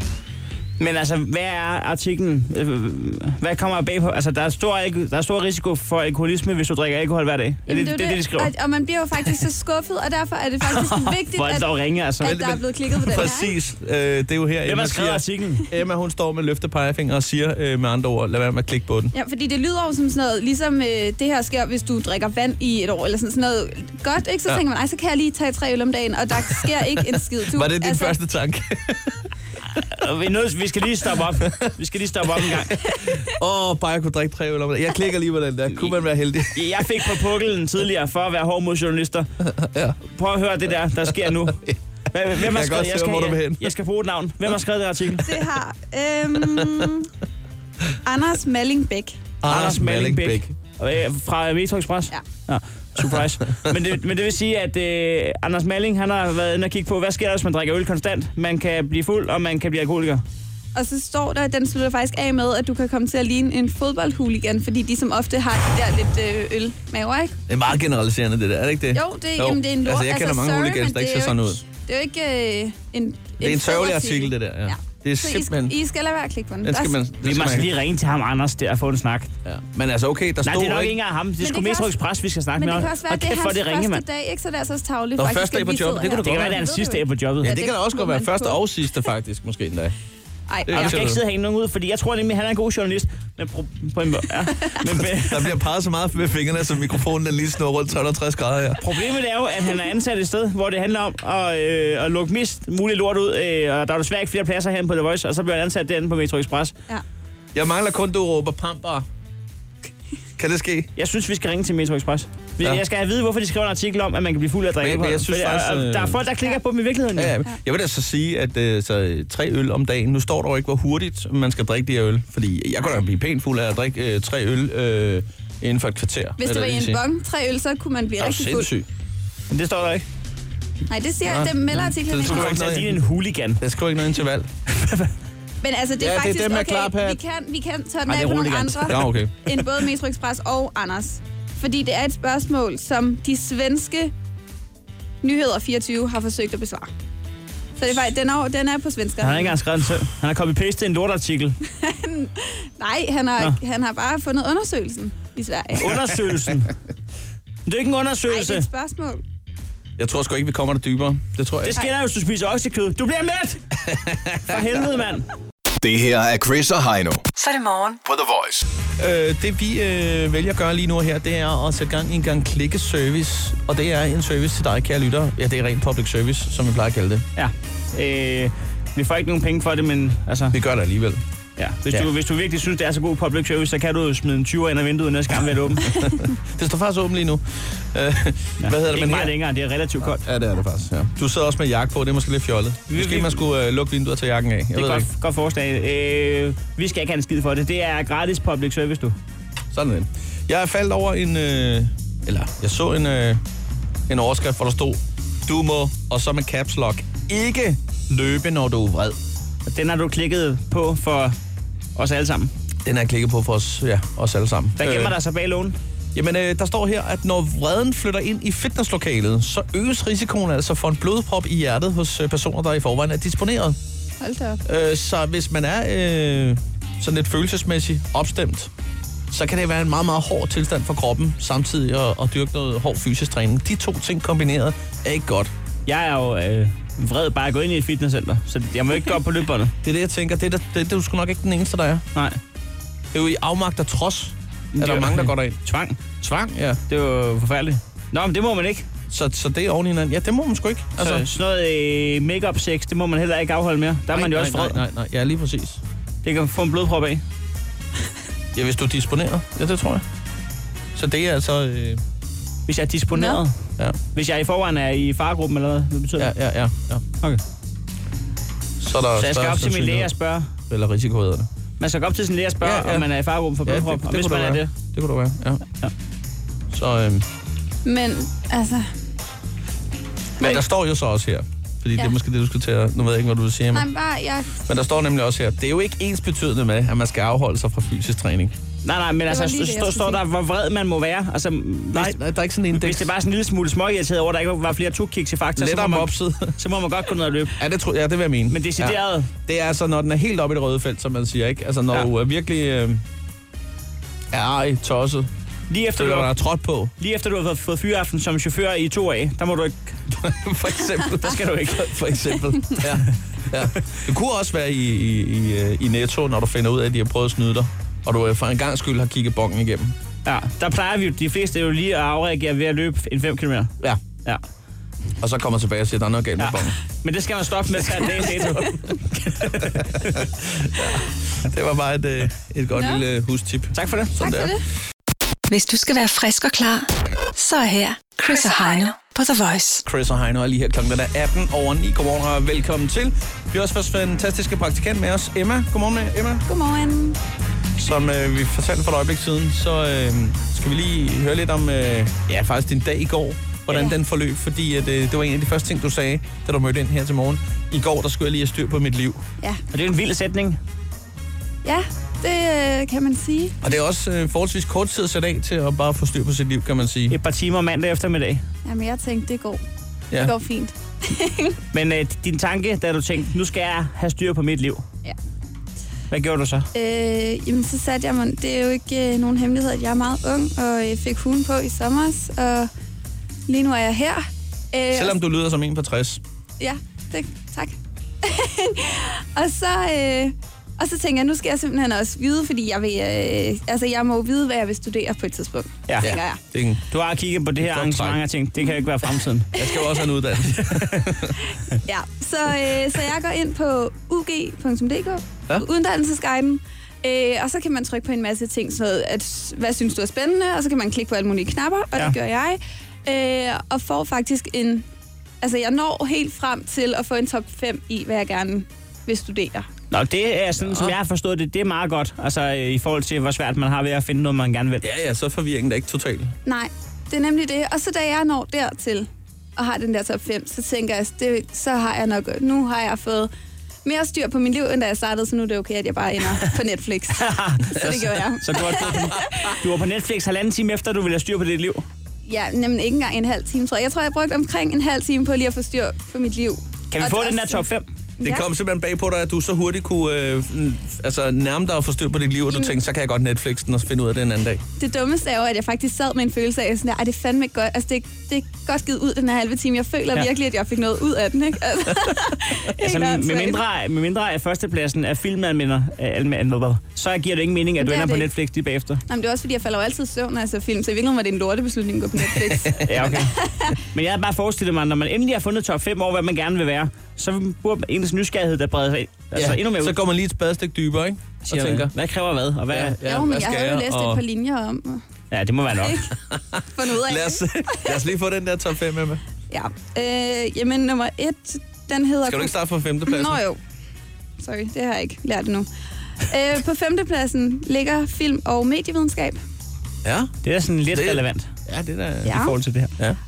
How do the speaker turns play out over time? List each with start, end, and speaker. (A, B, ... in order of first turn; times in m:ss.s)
0:00.8-0:08.5 A
0:07.7-0:13.5 B
0:10.8-0:12.4 A
0:12.2-0:19.1 C
0:14.6-0:15.7 A
0:19.1-0:28.2 B
0:26.6-0:29.3 C
0:29.8-0:32.8 A
0:31.4-0:31.7 C
0:32.3-0:37.1 C
0:36.5-0:39.3 A
0:39.4-0:40.0 C
0:40.0-0:45.3 A
0:41.4-0:41.8 C
0:42.3-0:43.7 C
0:45.2-0:47.1 B
0:46.4-0:46.9 C
0:48.0-0:49.2 B
0:49.4-0:50.5 C
0:49.5-1:00.2 A
1:00.7-1:07.4 B
1:07.5-1:11.6 C
1:08.9-1:17.0 B
1:13.4-1:15.7 C
1:16.6-1:17.7 C
1:17.2-1:19.3 A
1:19.4-1:21.0 C
1:20.4-1:24.0 A
1:21.4-1:22.0 B
1:22.6-1:28.6 B
1:25.2-1:26.6 C
1:26.2-1:27.5 A
1:27.4-1:29.9 C
1:30.5-1:31.0 B
1:30.6-1:31.2 C
1:30.7-1:35.5 A
1:35.1-1:38.8 C
1:38.8-1:46.7 A
1:47.5-1:49.0 C
1:50.4-1:50.9 C
1:51.0-1:57.4 A
1:54.8-1:56.2 C
1:57.2-2:07.0 C
2:06.4-2:08.7 B
2:08.2-2:08.9 C
2:09.5-2:10.0 A
2:10.9-2:12.7 B
2:11.2-2:13.0 C
2:12.2-2:13.6 A
2:13.6-2:14.5 C
2:14.7-2:15.1 A
2:15.6-2:24.1 B
2:16.0-2:17.2 C
2:18.1-2:19.1 A
2:18.9-2:19.4 C
2:25.2-2:26.9 B
2:27.8-2:29.6 B
2:29.2-2:31.6 A
2:31.8-2:36.0 B
2:35.8-2:36.7 A
2:37.6-2:38.7 A
2:38.3-2:39.2 B
2:40.0-2:41.8 C
2:41.6-2:43.6 A
2:43.8-2:44.6 C
2:44.4-2:45.3 A
2:45.8-2:47.3 D
2:47.4-2:48.0 E
2:48.0-2:48.6 D
2:49.0-2:57.2 C
2:57.4-3:00.6 A
3:00.5-3:01.2 C
3:01.6-3:06.0 A
3:05.9-3:09.3 C
3:08.6-3:10.2 A
3:10.1-3:15.1 C
3:12.9-3:13.4 A
3:14.7-3:19.2 A
3:19.7-3:23.4 C
3:24.1-3:29.2 C
3:29.6-3:31.4 A
3:32.0-3:32.5 A
3:32.8-3:35.1 C
3:34.8-3:35.8 A
3:36.1-3:43.8 C
3:44.2-3:44.6 B
3:44.6-3:48.7 C
3:49.3-3:55.5 C
3:55.8-3:59.7 A
3:59.8-4:02.0 C
4:03.1-4:05.6 C
4:04.7-4:06.2 A
4:06.2-4:06.8 C
4:06.9-4:08.9 A
4:09.1-4:11.2 C
4:11.0-4:14.8 A
4:14.1-4:15.8 C
4:16.2-4:17.2 A
4:18.5-4:20.0 C
4:20.9-4:22.0 C
4:22.7-4:23.6 A
4:23.1-4:23.4 B
4:24.1-4:26.3 A
4:26.2-4:27.0 C
4:28.8-4:30.1 C
4:29.2-4:30.5 A
4:30.7-4:31.5 C
4:31.8-4:34.7 A
4:32.6-4:33.1 C
4:33.6-4:35.6 C
4:36.7-4:37.2 C
4:37.8-4:38.9 B
4:40.4-4:43.9 C
4:43.7-4:44.5 B
4:44.6-4:48.5 C
4:48.8-4:52.2 A
4:49.3-4:50.2 B
4:51.9-4:53.1 C
4:52.7-4:57.6 A
4:55.6-4:56.5 C
4:57.6-5:03.0 C
4:58.5-4:59.3 A
5:04.3-5:05.3 C
5:05.7-5:06.3 A
5:05.9-5:06.9 C
5:07.0-5:10.0 A
5:10.1-5:20.0 C
5:11.2-5:12.0 A
5:20.2-5:23.7 A
5:25.2-5:26.8 C
5:26.4-5:30.2 A
5:28.3-5:28.7 C
5:29.6-5:34.5 C
5:32.7-5:33.0 B
5:33.7-5:34.3 A
5:34.2-5:34.6 B
5:35.5-5:39.8 E
5:39.8-5:46.4 C
5:46.4-5:47.2 B
5:47.8-5:59.2 C
5:53.7-5:54.0 B
5:59.7-6:00.6 A
6:01.6-6:03.6 B
6:03.6-6:07.2 C
6:07.1-6:08.4 A
6:08.6-6:09.6 B
6:10.2-6:11.6 B
6:11.7-6:14.8 A
6:16.1-6:16.7 A
6:16.7-6:22.7 B
6:23.5-6:25.2 B
6:24.9-6:26.2 C
6:26.6-6:36.4 B
6:35.9-6:36.1 A
6:36.0-6:36.8 C
6:36.9-6:39.5 A
6:37.6-6:38.2 C
6:39.5-6:41.4 C
6:39.5-6:40.0 B
6:40.6-6:41.1 A
6:41.5-6:54.8 B
6:55.4-6:59.7 B
6:59.9-7:04.9 A
7:00.6-7:00.9 C
7:04.8-7:06.3 C
7:06.4-7:13.3 B
7:13.8-7:19.6 B
7:17.1-7:21.8 A
7:18.8-7:19.4 C
7:22.2-7:27.6 B
7:26.9-7:27.8 A
7:28.2-7:34.6 C
7:34.8-7:43.6 B
7:42.8-7:49.0 A
7:47.8-7:48.3 B
7:49.1-7:53.8 B
7:52.3-7:53.2 C
7:52.8-8:00.0 A
7:59.3-8:01.9 C
8:01.4-8:03.0 A
8:02.7-8:04.2 C
8:03.0-8:05.0 B
8:05.3-8:06.1 A
8:05.8-8:06.1 B
8:06.2-8:09.2 C
8:06.7-8:08.0 B
8:09.5-8:13.6 B
8:12.2-8:13.4 C
8:14.4-8:15.7 B
8:16.2-8:19.4 B
8:20.0-8:20.3 C
8:20.4-8:21.5 A
8:20.9-8:22.4 C
8:22.2-8:22.5 B
8:22.2-8:22.9 A